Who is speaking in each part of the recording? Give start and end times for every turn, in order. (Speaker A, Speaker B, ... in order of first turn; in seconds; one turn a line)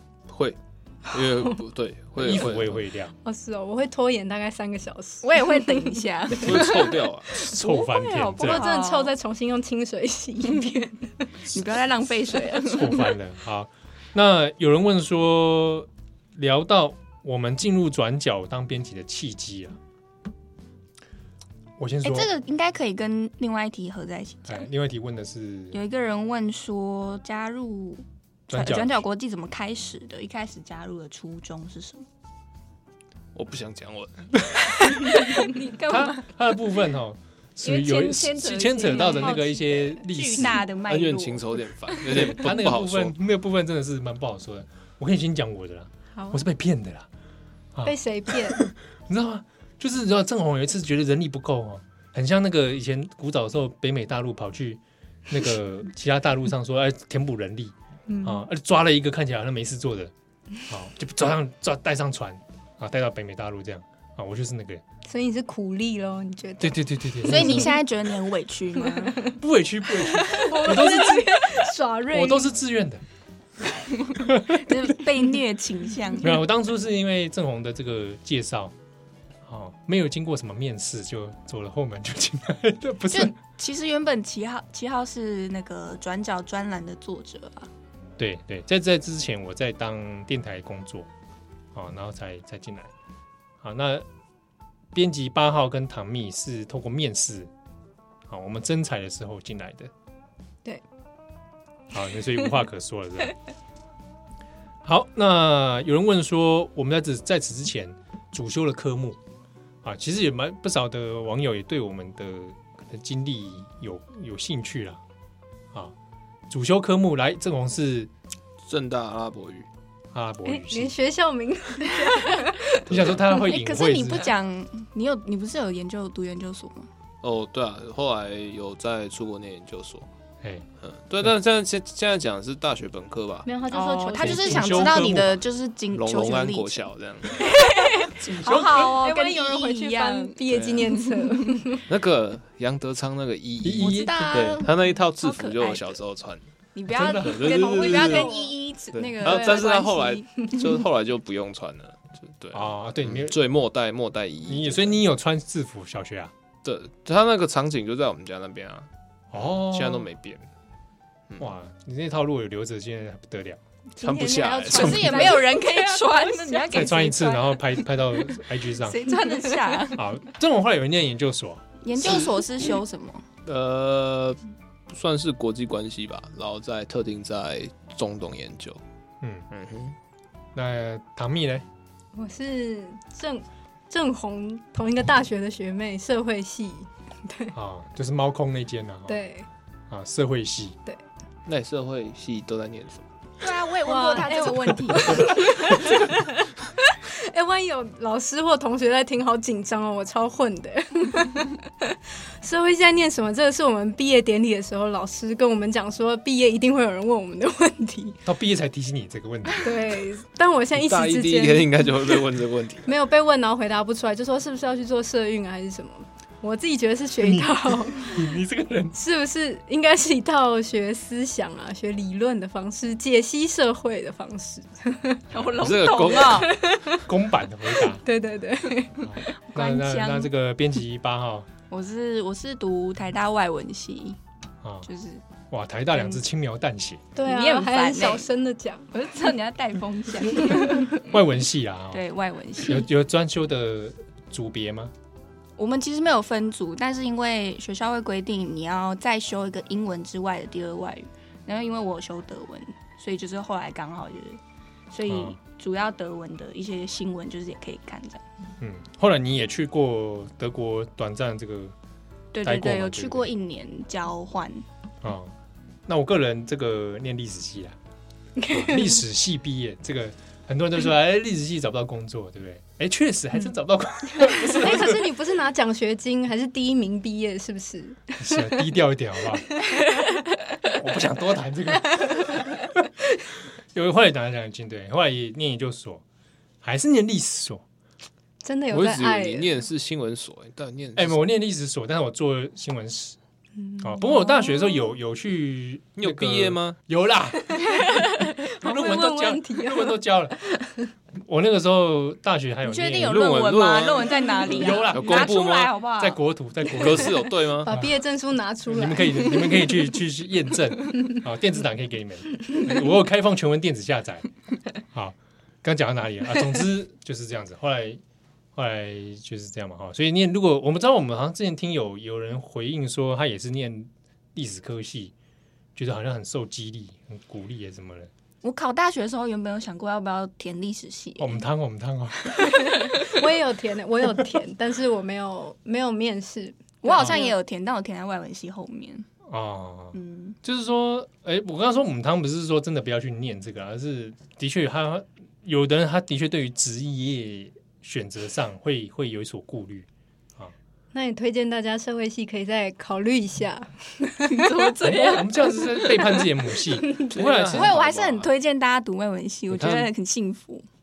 Speaker A: 0.3-2.8
Speaker B: 2.2-3.1
Speaker C: 3.2-6.0
Speaker D: 5.2-9.2
Speaker A: 6.4-7.3
Speaker B: 7.3-8.6
Speaker C: 8.4-11.3
Speaker D: 11.5-13.1
Speaker B: 12.7-19.8
Speaker B: 21.8-22.3
Speaker D: 22.0-24.6
Speaker B: 24.5-25.8
Speaker D: 25.7-32.0
Speaker B: 28.5-28.9
Speaker A: 33.4-34.3
Speaker D: 34.9-36.2
Speaker B: 35.9-40.6
Speaker D: 37.6-39.4
Speaker C: 38.9-40.0
Speaker D: 40.1-41.6
Speaker A: 40.9-43.1
Speaker B: 42.1-47.1
Speaker C: 46.1-46.5
Speaker B: 47.8-60.1
Speaker C: 47.8-48.6
Speaker C: 58.1-58.4
Speaker B: 60.6-64.8
Speaker C: 65.0-66.8
Speaker B: 66.6-67.8
Speaker D: 67.2-69.3
Speaker B: 69.4-73.0
Speaker C: 70.0-72.5
Speaker D: 74.4-76.4
Speaker B: 76.2-78.7
Speaker B: 79.5-83.3
Speaker D: 83.1-87.7
Speaker B: 88.2-91.1
Speaker B: 91.8-92.9
Speaker B: 93.6-94.0
Speaker B: 94.9-97.5
Speaker B: 98.3-99.9
Speaker B: 101.9-103.3
Speaker B: 104.8-109.2
Speaker B: 109.8-115.0
Speaker B: 116.5-118.1
Speaker A: 118.6-119.7
Speaker B: 120.1-120.9
Speaker C: 120.4-122.9
Speaker B: 122.9-124.2
Speaker A: 122.9-123.2
Speaker D: 123.3-126.9
Speaker A: 127.2-130.1
Speaker A: 130.8-133.5
Speaker C: 133.4-135.1
Speaker D: 133.7-136.9
Speaker B: 134.2-135.4
Speaker A: 135.9-137.5
Speaker D: 137.4-141.6
Speaker C: 137.6-141.8
Speaker B: 138.2-139.0
Speaker A: 140.5-140.9
Speaker A: 141.9-146.4
Speaker B: 143.6-144.4
Speaker D: 143.8-146.0
Speaker D: 146.8-150.6
Speaker B: 146.9-147.5
Speaker A: 147.0-148.3
Speaker C: 147.7-148.5
Speaker A: 148.9-155.0
Speaker C: 149.2-149.7
Speaker B: 152.5-153.4
Speaker B: 154.5-156.3
Speaker A: 156.6-160.5
Speaker B: 159.3-160.1
Speaker B: 161.4-163.6
Speaker A: 164.0-165.4
Speaker D: 164.0-168.2
Speaker C: 164.0-167.0
Speaker B: 166.7-169.1
Speaker D: 168.7-170.0
Speaker C: 169.2-169.8
Speaker B: 169.9-171.6
Speaker D: 171.8-173.2
Speaker A: 172.0-172.4
Speaker A: 173.4-178.8
Speaker A: 179.5-180.0
Speaker B: 180.5-181.7
Speaker C: 182.1-187.5
Speaker B: 187.5-189.2
Speaker C: 189.1-189.5
Speaker B: 189.9-190.8
Speaker A: 191.5-193.1
Speaker D: 193.4-195.8
Speaker C: 193.8-208.2
Speaker B: 208.2-209.7
Speaker C: 209.6-212.2
Speaker A: 210.8-212.9
Speaker C: 212.8-218.3
Speaker B: 217.2-219.0
Speaker C: 218.9-225.3
Speaker D: 225.3-226.5
Speaker A: 225.6-226.5
Speaker C: 226.3-227.1
Speaker B: 227.0-228.0
Speaker C: 227.8-229.1
Speaker B: 229.0-231.5
Speaker D: 229.3-230.3
Speaker D: 231.7-234.2
Speaker B: 234.6-234.9
Speaker D: 234.8-235.2
Speaker B: 235.5-237.0
Speaker D: 235.9-236.2
Speaker C: 237.2-238.9
Speaker D: 237.2-238.3
Speaker D: 238.9-241.2
Speaker B: 241.0-242.0
Speaker D: 241.9-242.9
Speaker B: 242.6-244.9
Speaker D: 245.6-254.4
Speaker D: 254.9-258.2
Speaker B: 255.1-255.4
Speaker B: 258.6-261.7
Speaker D: 262.3-264.6
Speaker B: 262.4-263.3
Speaker B: 265.0-265.3
Speaker B: 265.9-267.8
Speaker C: 268.4-269.0
Speaker B: 268.5-275.1
Speaker C: 274.2-278.5
Speaker B: 278.2-279.5
Speaker B: 280.7-282.6
Speaker B: 283.7-286.0
Speaker B: 286.6-287.6
Speaker C: 288.4-289.5
Speaker A: 288.7-291.2
Speaker B: 290.9-293.2
Speaker C: 293.7-294.9
Speaker B: 293.8-297.9
Speaker A: 296.0-296.8
Speaker C: 297.6-300.9
Speaker B: 298.4-300.4
Speaker B: 301.2-303.2
Speaker D: 302.6-306.2
Speaker A: 303.0-305.8
Speaker B: 304.5-305.5
Speaker B: 306.0-307.9
Speaker A: 306.8-307.7
Speaker C: 307.6-309.7
Speaker B: 308.7-314.3
Speaker B: 314.9-318.0
Speaker B: 318.6-325.1
Speaker B: 325.8-328.1
Speaker D: 328.4-331.4
Speaker B: 331.2-332.5
Speaker C: 332.6-337.4
Speaker D: 332.8-333.2
Speaker D: 336.8-339.1
Speaker B: 337.0-337.2
Speaker B: 339.3-349.9
Speaker D: 339.9-340.4
Speaker C: 350.9-355.2
Speaker D: 354.2-355.3
Speaker B: 354.8-357.7
Speaker A: 357.1-358.3
Speaker D: 357.4-360.7
Speaker A: 359.5-359.9